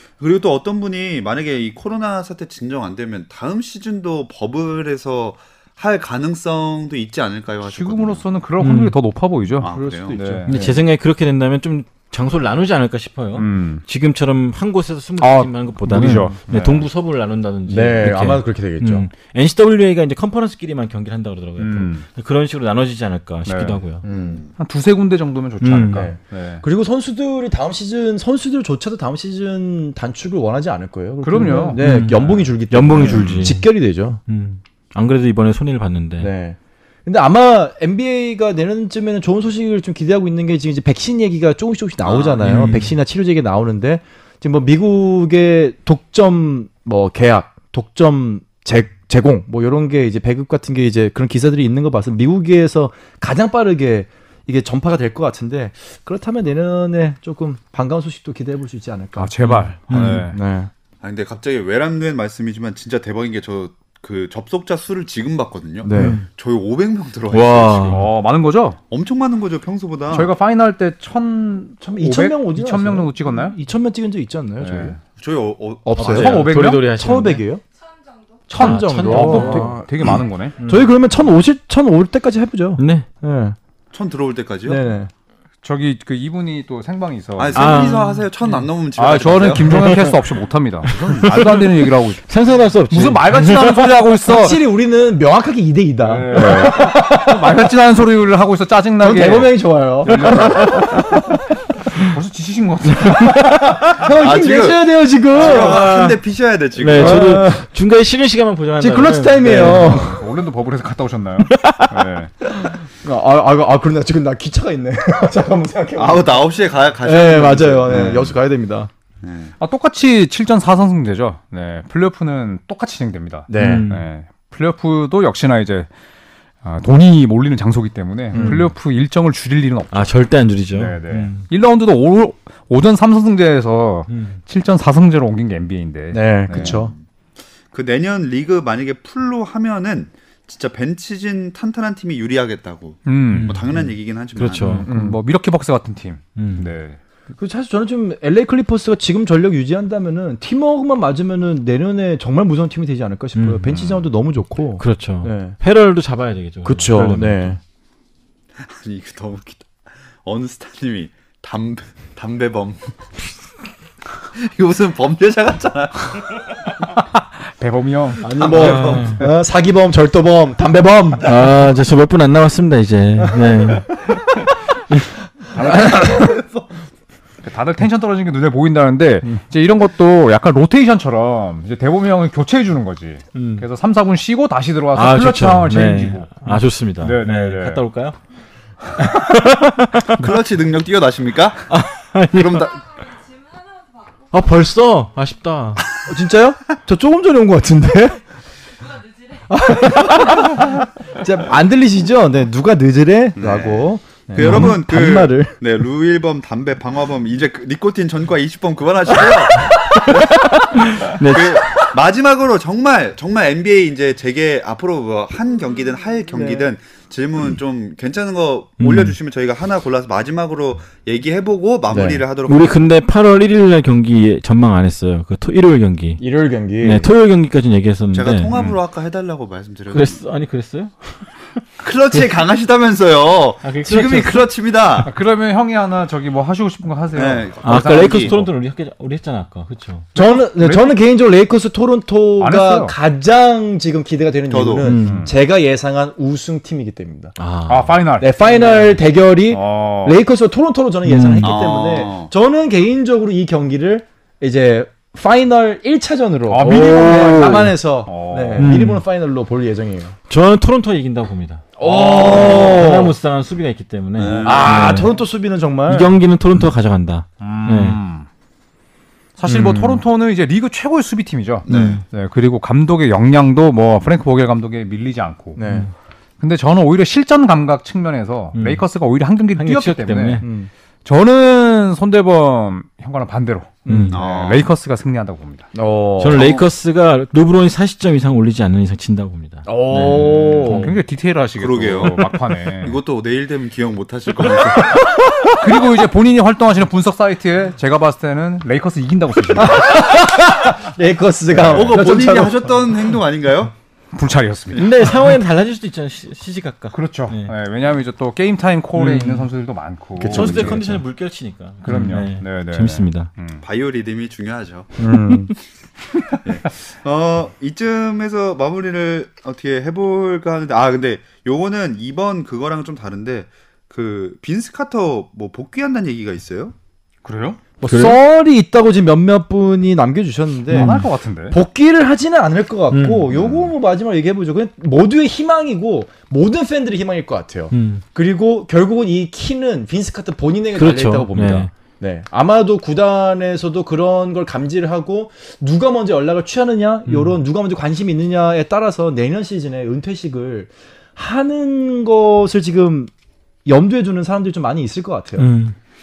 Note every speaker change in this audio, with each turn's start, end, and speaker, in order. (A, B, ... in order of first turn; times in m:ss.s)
0:00.1-0:08.2 A
0:07.6-0:10.5 B
0:08.6-0:08.9 C
0:09.6-0:10.4 A
0:09.6-0:10.8 D
0:10.4-0:24.0 C
0:13.3-0:13.8 B
0:15.2-0:16.8 B
0:17.7-0:19.1 D
0:21.6-0:22.0 B
0:23.4-0:23.8 B
0:24.0-0:24.4 D
0:24.0-0:24.5 A
0:24.6-0:26.6 B
0:25.6-0:26.1 C
0:25.9-0:34.2 D
0:31.2-0:32.4 B
0:31.7-0:33.7 C
0:33.0-0:33.5 B
0:34.2-0:36.3 C
0:36.2-0:59.3 D
0:42.0-0:42.7 A
0:42.4-0:42.9 C
0:59.2-1:00.4 B
0:59.4-1:00.3 C
0:59.9-1:00.7 D
1:01.0-1:08.1 A
1:05.8-1:06.2 D
1:05.9-1:06.2 C
1:07.3-1:08.0 C
1:07.9-1:08.8 B
1:08.9-1:10.3 A
1:10.1-1:13.6 B
1:11.8-1:15.0 D
1:14.6-1:14.9 B
1:15.2-1:16.3 A
1:15.8-1:17.6 D
1:16.0-1:17.5 C
1:16.0-1:16.8 B
1:17.7-1:18.5 E
1:18.5-1:20.6 B
1:18.5-1:23.6 D
1:18.5-1:19.8 C
1:20.6-1:21.0 C
1:22.8-1:23.1 C
1:23.9-1:24.8 A
1:24.6-1:25.1 D
1:25.6-1:27.9 B
1:27.4-1:29.8 A
1:27.5-1:28.2 C
1:28.9-1:32.2 B
1:29.7-1:30.1 C
1:30.9-1:34.5 C
1:30.9-1:31.3 A
1:32.9-1:34.6 B
1:34.3-1:37.6 D
1:36.0-1:41.2 B
1:39.0-1:41.3 D
1:41.9-1:43.6 B
1:43.0-1:46.1 D
1:44.0-1:47.4 A
1:45.4-1:46.2 C
1:46.8-1:50.1 C
1:46.9-1:47.7 D
1:48.8-1:50.2 D
1:49.4-1:52.3 B
1:51.6-1:51.9 C
1:52.6-1:56.4 D
1:56.0-1:58.4 A
1:57.0-1:58.9 D
1:57.9-1:58.2 B
1:59.2-1:59.5 A
1:59.6-2:05.9 B
2:03.5-2:03.9 D
2:03.6-2:04.1 C
2:06.6-2:10.1 B
2:08.3-2:08.6 D
2:08.3-2:08.7 C
2:09.9-2:11.4 C
2:10.7-2:16.8 B
2:14.1-2:14.4 C
2:16.1-2:16.9 D
2:16.5-2:17.0 A
2:17.7-2:24.8 A
2:23.0-2:23.7 B
2:23.3-2:23.8 C
2:24.3-2:24.9 C
2:24.6-2:27.0 B
2:24.8-2:25.2 D
2:26.4-2:26.7 C
2:27.4-2:35.6 D
2:33.4-2:33.7 C
2:33.7-2:34.0 B
2:34.8-2:37.6 C
2:36.6-2:37.6 D
2:38.6-2:39.7 A
2:40.2-2:42.9 A
2:44.2-2:46.2 A
2:46.9-2:49.3 B
2:48.2-2:51.4 D
2:48.4-2:49.2 C
2:48.4-2:49.1 A
2:51.2-2:53.9 C
2:53.4-2:54.2 D
2:55.5-2:56.3 B
2:55.5-2:56.6 D
2:55.6-2:56.2 C
2:57.4-3:07.8 B
3:03.3-3:03.6 C
3:04.9-3:08.2 C
3:09.0-3:10.1 C
3:10.2-3:11.6 A
3:11.7-3:12.7 C
3:12.3-3:12.7 A
3:12.5-3:14.4 E
3:14.3-3:15.8 C
3:16.0-3:18.2 D
3:18.8-3:20.0 E
3:19.5-3:25.6 D
3:23.4-3:30.2 A
3:24.4-3:24.8 C
3:29.7-3:31.9 C
3:31.2-3:42.8 A
3:36.3-3:36.6 D
3:38.8-3:39.2 C
3:41.9-3:42.2 D
3:42.4-3:46.2 C
3:46.2-3:47.1 D
3:46.8-3:48.5 C
3:48.1-3:50.2 A
3:48.5-3:48.8 B
3:49.9-3:51.3 C
3:51.8-3:55.1 A
3:53.6-3:54.5 C
3:55.0-3:58.4 B
3:57.1-3:58.4 A
3:57.6-4:00.1 C
4:00.1-4:01.0 B
4:00.2-4:07.3 D
4:02.4-4:03.0 B
4:04.5-4:04.9 A
4:04.8-4:05.3 C
4:05.0-4:05.4 B
4:07.4-4:08.0 C
4:07.7-4:10.2 B
4:08.2-4:20.2 D
4:11.0-4:11.6 C
4:11.4-4:12.3 A
4:16.5-4:18.8 B
4:16.6-4:17.8 C
4:18.6-4:19.0 C
4:20.3-4:25.1 C
4:21.8-4:23.1 D
4:21.8-4:22.6 B
4:22.3-4:22.8 A
4:24.2-4:25.0 A
4:24.4-4:26.1 D
4:25.9-4:28.0 C
4:27.4-4:28.2 B
4:29.4-4:35.6 B
4:29.5-4:29.8 C
4:31.6-4:32.0 A
4:31.7-4:32.0 C
4:35.6-4:35.9 D
4:35.6-4:35.9 C
4:36.4-4:40.4 B
4:38.5-4:38.8 C
4:39.6-4:40.4 C
4:40.4-4:40.7 D
4:41.0-4:45.7 B
4:43.9-4:44.2 D
4:43.9-4:44.2 C
4:44.1-4:44.7 A
4:45.7-4:46.4 D
4:46.2-4:51.0 C
4:46.3-4:46.6 A
4:49.6-4:50.9 D
4:50.1-4:53.0 B
4:51.6-4:55.1 A
4:55.0-4:55.3 D
4:55.5-5:00.1 B
4:59.6-5:02.6 D
5:01.5-5:03.7 A
5:04.1-5:05.3 B
5:04.7-5:07.5 C
5:06.9-5:10.8 B
5:09.0-5:09.4 C
5:10.2-5:11.0 D
5:10.3-5:13.3 C
5:11.8-5:13.6 B
5:11.9-5:12.2 D
5:13.6-5:14.9 A
5:15.0-5:15.5 D
5:16.4-5:26.7 A
5:27.2-5:27.6 B
5:27.8-5:28.2 C
5:27.8-5:53.1 D
5:30.7-5:31.6 B
5:30.7-5:31.0 C
5:32.9-5:33.2 C
5:33.3-5:33.7 A
5:37.7-5:38.0 C
5:40.7-5:41.7 C
5:47.1-5:47.4 C
5:53.6-5:55.5 D
5:55.4-5:55.7 C